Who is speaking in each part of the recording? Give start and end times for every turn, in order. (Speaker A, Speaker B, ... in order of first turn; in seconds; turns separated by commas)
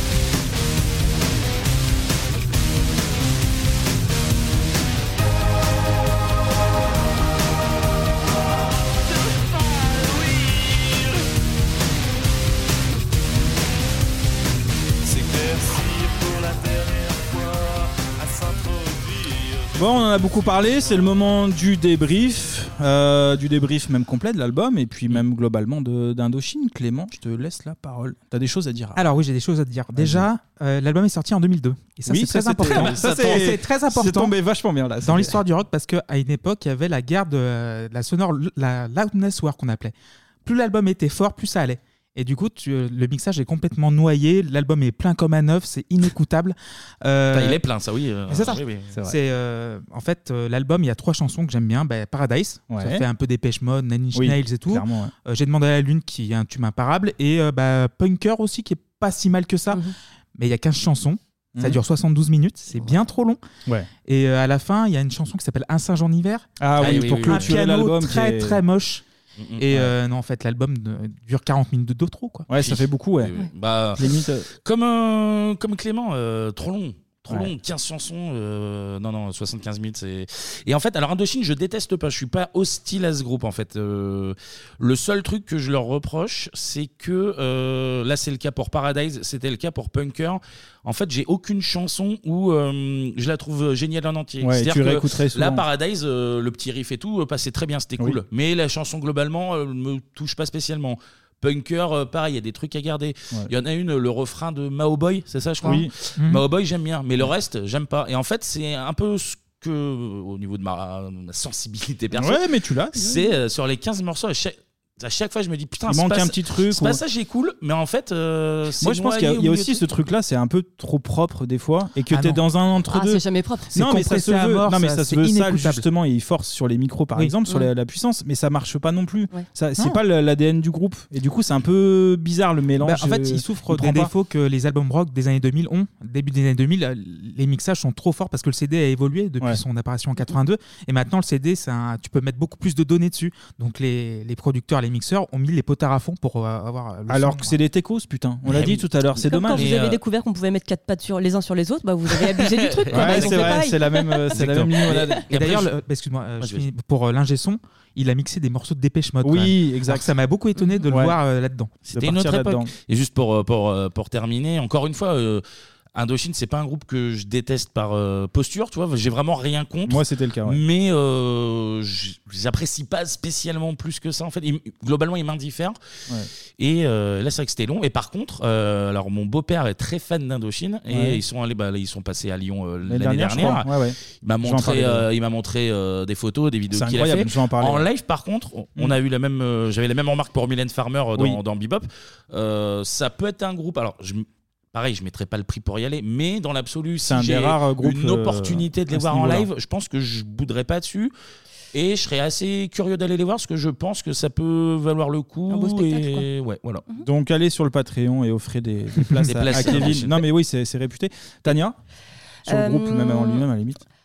Speaker A: 8.9-11.2, Speaker A: 15.0-20.9, Speaker B: 19.7-29.0, Speaker C: 28.9-34.3, Speaker B: 29.9-30.3, Speaker B: 32.1-35.4, Speaker D: 32.7-33.5, Speaker C: 35.0-47.6, Speaker D: 47.3-48.9, Speaker C: 48.3-63.4, Speaker B: 52.7-53.0, Speaker B: 54.1-55.1, Speaker C: 64.0-69.0, Speaker B: 66.6-68.6, Speaker D: 66.8-67.6, Speaker D: 69.4-69.6, Speaker C: 69.6-72.5, Speaker B: 72.5-73.3, Speaker D: 72.5-74.0, Speaker B: 74.0-74.5, Speaker D: 74.6-112.4, Speaker B: 94.4-95.6, Speaker B: 105.6-105.9, Speaker C: 106.2-106.4, Speaker B: 112.1-113.2, Speaker D: 113.0-119.8, Speaker B: 115.9-117.0, Speaker B: 118.8-123.2, Speaker C: 122.1-122.4, Speaker E: 122.9-123.7, Speaker B: 123.7-134.1, Speaker C: 123.7-125.8, Speaker C: 132.8-147.6, Speaker B: 147.1-149.7, Speaker D: 148.5-148.8, Speaker E: 149.2-154.3, Speaker D: 149.5-150.0, Speaker D: 152.2-153.6, Speaker B: 152.9-155.2, Speaker D: 154.3-155.7, Speaker C: 155.3-161.7, Speaker B: 159.2-160.1, Speaker B: 160.9-161.2, Speaker D: 161.9-165.4, Speaker B: 161.9-162.7, Speaker D: 165.9-175.8, Speaker B: 169.9-170.6, Speaker D: 176.6-201.1, Speaker B: 180.9-181.2, Speaker B: 182.9-185.1, Speaker B: 186.7-187.9, Speaker B: 197.0-199.5, Speaker D: 201.7-206.8, Speaker E: 205.5-206.3, Speaker B: 207.0-211.8, Speaker D: 209.3-210.2, Speaker B: 212.4-213.8, Speaker E: 212.5-213.4